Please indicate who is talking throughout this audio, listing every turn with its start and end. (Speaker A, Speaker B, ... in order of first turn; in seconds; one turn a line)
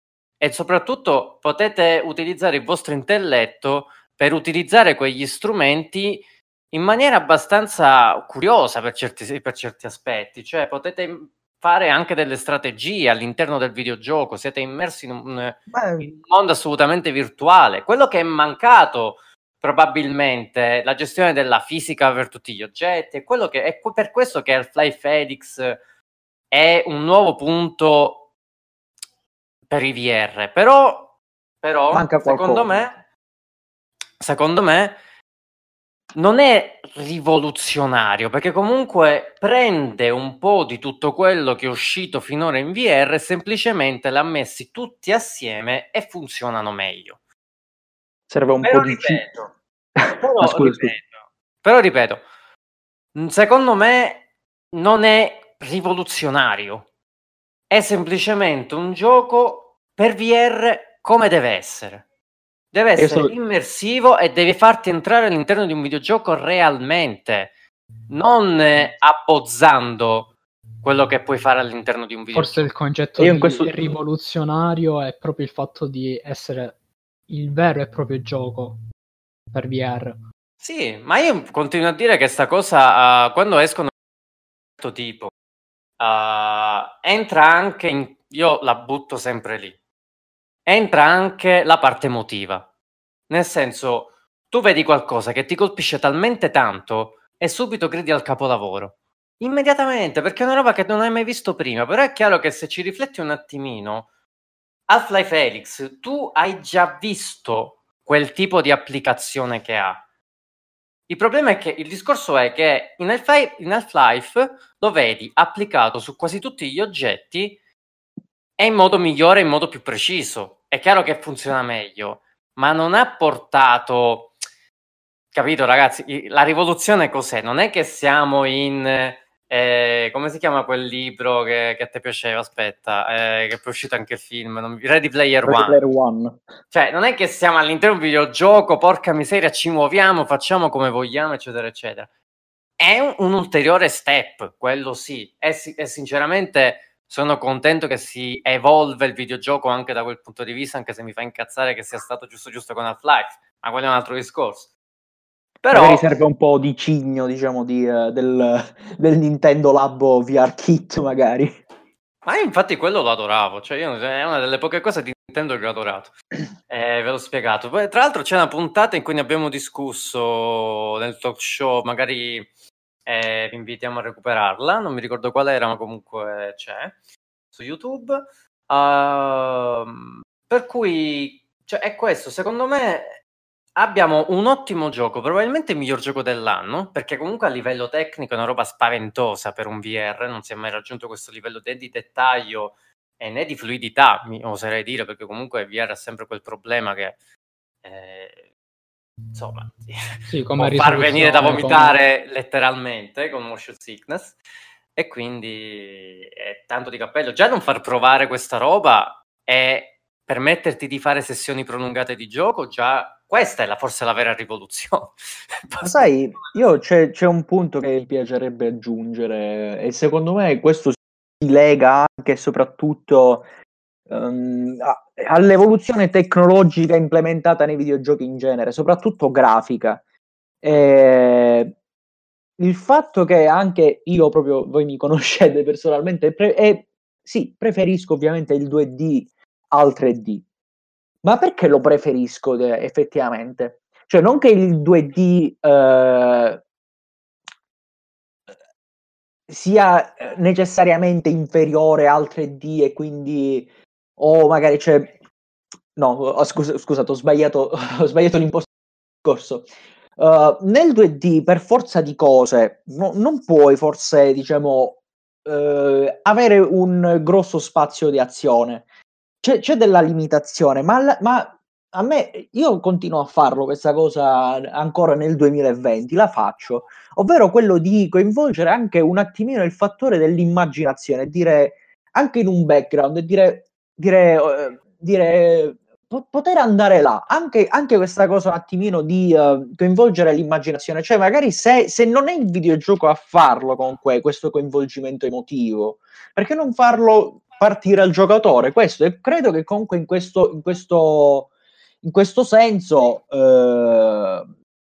Speaker A: 0.4-25.8
Speaker B: 15.7-16.1
Speaker A: 26.5-28.3
Speaker A: 29.7-33.0
Speaker B: 31.9-32.7
Speaker A: 34.2-35.0
Speaker A: 36.1-47.2
Speaker B: 48.3-49.2
Speaker A: 48.6-49.5
Speaker B: 50.0-50.9
Speaker A: 50.2-52.2
Speaker A: 53.1-56.9
Speaker A: 57.7-62.0
Speaker A: 62.7-67.5
Speaker B: 63.0-63.3
Speaker A: 68.1-72.7
Speaker C: 72.3-76.8
Speaker B: 73.2-73.8
Speaker C: 77.3-78.8
Speaker C: 79.5-80.2
Speaker A: 80.6-83.9
Speaker A: 84.8-85.3
Speaker A: 86.0-89.8
Speaker A: 90.7-92.7
Speaker A: 93.3-104.1
Speaker A: 104.9-110.0
Speaker A: 111.1-117.6
Speaker A: 118.6-124.3
Speaker A: 125.3-135.8
Speaker B: 135.4-136.4
Speaker A: 136.7-142.1
Speaker A: 142.8-154.7
Speaker A: 155.6-156.1
Speaker B: 155.7-161.6
Speaker A: 162.2-166.1
Speaker A: 166.7-172.5
Speaker A: 173.1-176.9
Speaker A: 177.5-183.2
Speaker A: 183.8-197.2
Speaker A: 197.8-198.4
Speaker A: 199.3-204.4
Speaker C: 200.3-201.9
Speaker A: 204.9-216.1
Speaker B: 215.8-223.5
Speaker B: 224.1-230.0
Speaker B: 230.6-231.8
Speaker B: 232.6-240.4
Speaker B: 241.2-246.6
Speaker B: 249.5-255.1
Speaker B: 255.9-258.7
Speaker B: 259.2-268.9
Speaker B: 269.4-301.5
Speaker B: 302.0-304.5